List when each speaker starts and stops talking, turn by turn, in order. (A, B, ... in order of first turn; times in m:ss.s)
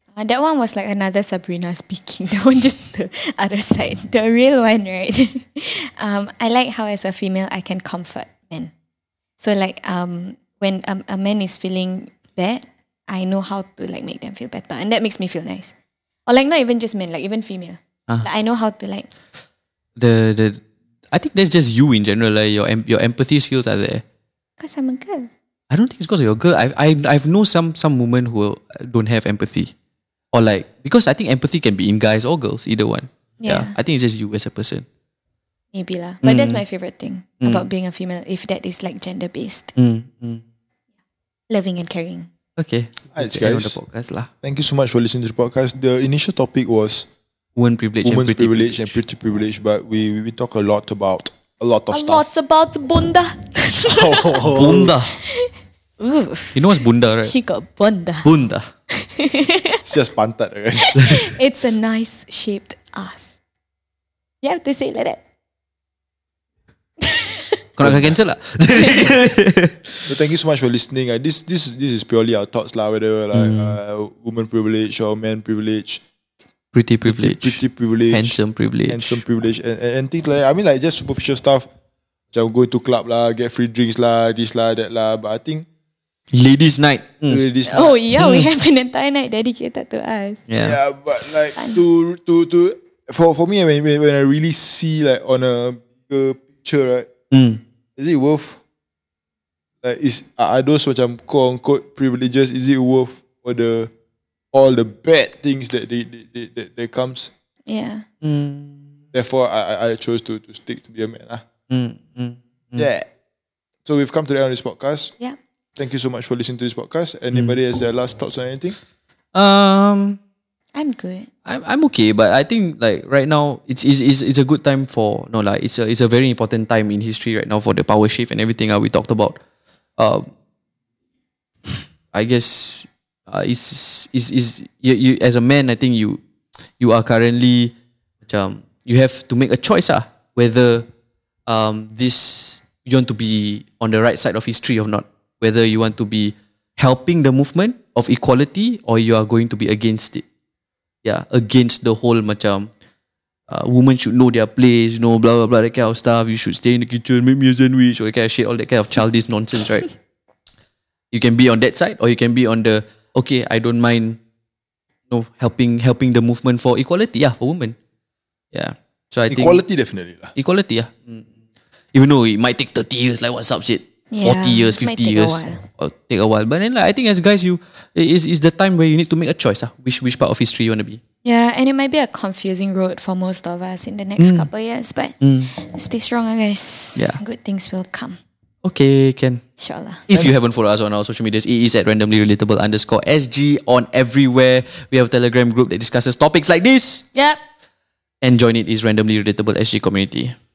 0:00.2-0:08.7 A
0:09.4-0:15.7 A
0:16.3-0:19.1 A
0:20.0-0:24.0 B
0:24.6-0:25.3 A
0:25.7-0:29.7 B
0:30.3-0:34.9 B
0:33.4-0:33.7 A
0:35.7-0:39.7 A
0:36.2-0:36.6 B
0:37.4-0:37.7 B
0:39.7-0:40.4 B
0:41.5-0:42.3 A
0:42.6-0:44.3 B
0:43.1-0:43.8 C
0:44.4-0:47.1 C
0:47.6-0:49.0 B
0:48.0-0:52.2 C
0:51.9-0:54.6 A
0:53.9-0:55.0 C
0:54.5-0:55.2 B
0:55.3-0:58.3 A
0:56.6-0:57.3 B
0:58.2-0:58.7 B
0:58.9-0:59.8 A
0:59.8-1:01.0 C
1:00.8-1:03.4 A
1:01.0-1:01.2 B
1:04.4-1:05.2 A
1:07.0-1:07.6 A
1:07.8-1:10.1 B
1:07.8-1:08.2 C
1:10.1-1:16.0 C
1:13.3-1:13.8 B
1:16.7-1:19.2 B
1:17.0-1:18.4 C
1:18.9-1:21.7 C
1:22.3-1:25.7 C
1:26.3-1:27.4 B
1:27.3-1:28.0 C
1:27.7-1:30.4 A
1:28.2-1:28.5 B
1:30.5-1:30.8 B
1:30.6-1:37.1 C
1:31.6-1:31.8 A
1:37.3-1:37.6 B
1:38.0-1:38.6 C
1:39.8-1:43.9 C
1:44.5-1:47.3 C
1:47.7-1:48.0 A
1:48.2-1:49.0 B
1:49.1-1:51.4 C
1:51.7-1:52.9 B
1:52.8-1:53.0 C
1:53.8-1:55.1 C
1:55.8-1:58.7 C
1:59.3-2:00.2 B
2:00.7-2:01.3 A
2:01.4-2:09.4 B
2:10.0-2:10.3 B
2:11.7-2:16.2 B
2:16.8-2:17.7 B
2:18.3-2:20.9 B
2:21.5-2:30.2 B
2:31.0-2:32.7 B
2:33.5-2:39.9 B
2:41.1-2:44.2 B
2:45.1-2:47.8 B
2:48.5-2:49.6 B
2:49.3-2:50.3 C
2:50.4-2:51.3 B
2:51.9-3:01.0 B
2:54.1-2:55.6 A
3:01.2-3:08.2 A
3:04.2-3:04.5 B
3:05.2-3:05.5 B
3:08.6-3:09.4 B
3:09.6-3:10.0 A
3:10.1-3:17.0 B
3:18.2-3:20.3 B